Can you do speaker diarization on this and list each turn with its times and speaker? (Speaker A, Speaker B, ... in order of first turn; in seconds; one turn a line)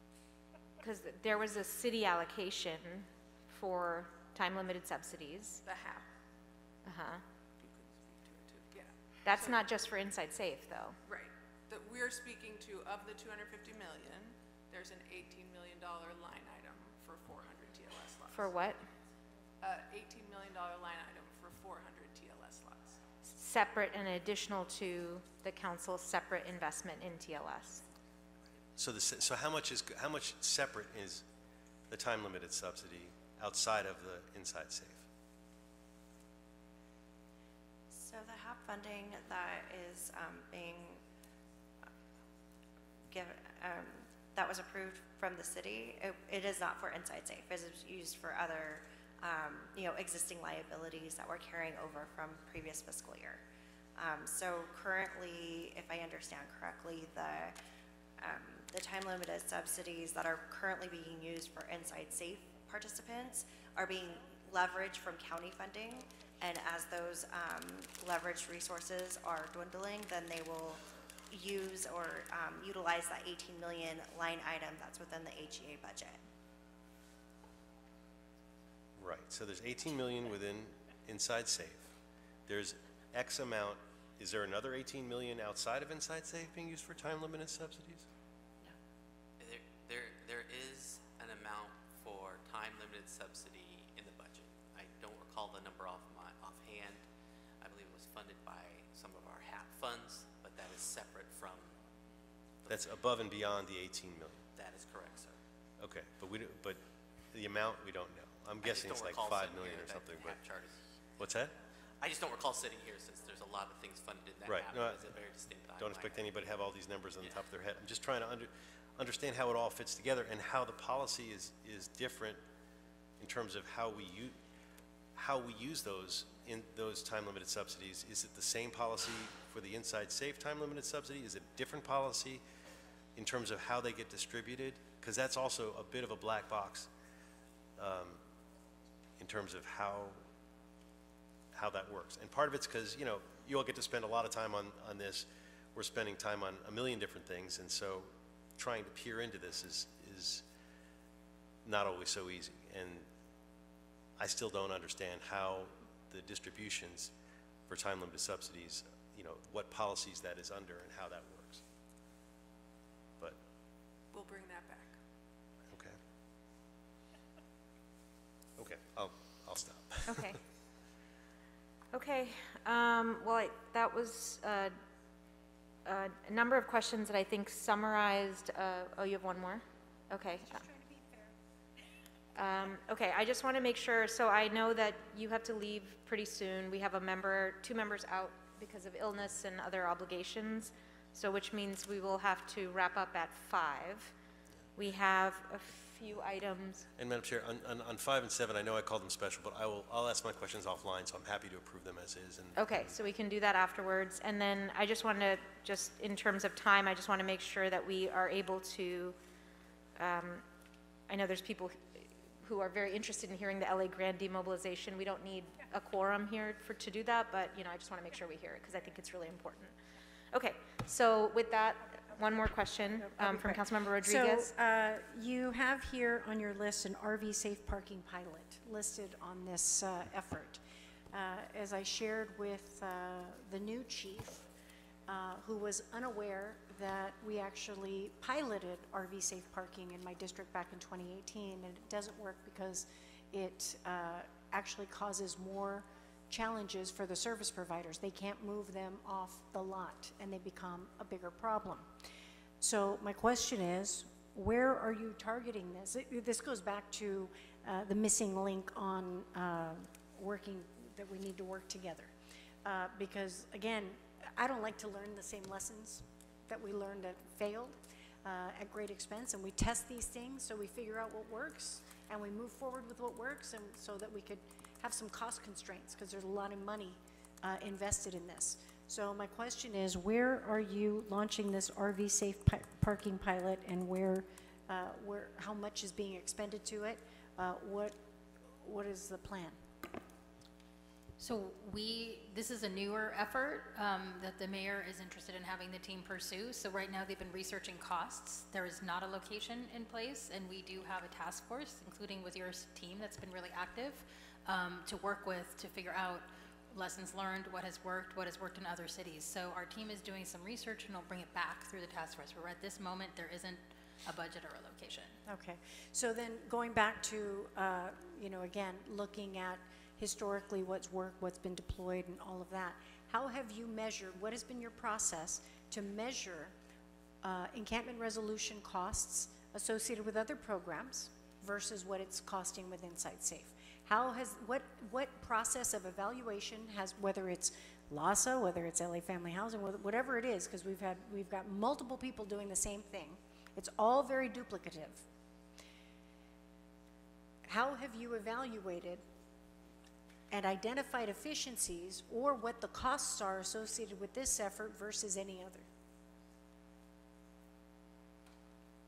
Speaker A: 0.8-5.6
Speaker B: 5.6-6.0
Speaker A: 6.9-7.2
Speaker B: 7.6-9.6
Speaker A: 9.2-11.0
Speaker B: 11.1-18.6
Speaker A: 18.3-18.8
Speaker B: 19.6-23.0
Speaker A: 23.3-27.8
Speaker C: 28.8-31.2
Speaker C: 31.9-35.1
Speaker D: 37.9-41.0
Speaker D: 43.1-53.4
Speaker D: 54.0-57.6
Speaker D: 58.2-76.2
Speaker C: 79.0-81.9
Speaker C: 82.5-88.1
Speaker E: 89.4-97.0
Speaker E: 97.6-101.8
Speaker E: 102.7-103.0
Speaker C: 102.7-104.4
Speaker E: 104.6-105.4
Speaker C: 105.8-110.4
Speaker E: 108.6-110.8
Speaker C: 111.2-111.5
Speaker E: 112.0-116.3
Speaker C: 114.5-115.0
Speaker C: 115.8-122.4
Speaker C: 123.2-124.4
Speaker C: 125.2-132.4
Speaker C: 133.2-136.9
Speaker C: 137.8-138.2
Speaker C: 139.2-140.2
Speaker C: 141.5-150.4
Speaker C: 151.7-153.1
Speaker C: 154.2-157.1
Speaker C: 157.7-161.6
Speaker B: 164.1-164.9
Speaker C: 165.7-166.0
Speaker C: 168.6-170.3
Speaker A: 170.1-170.4
Speaker A: 171.9-174.8
Speaker A: 175.8-180.6
Speaker F: 180.7-181.2
Speaker A: 182.3-194.1
Speaker A: 194.8-196.8
Speaker C: 197.0-202.9
Speaker A: 202.6-209.2
Speaker A: 210.0-210.4
Speaker A: 211.1-219.8
Speaker A: 220.3-224.5
Speaker F: 223.0-234.5
Speaker F: 235.1-251.9
Speaker F: 252.6-262.1
Speaker F: 262.6-288.0
Speaker F: 288.6-289.6
Speaker G: 291.2-315.2
Speaker F: 315.3-326.5
Speaker F: 327.2-345.1
Speaker F: 347.5-349.1
Speaker F: 350.3-355.7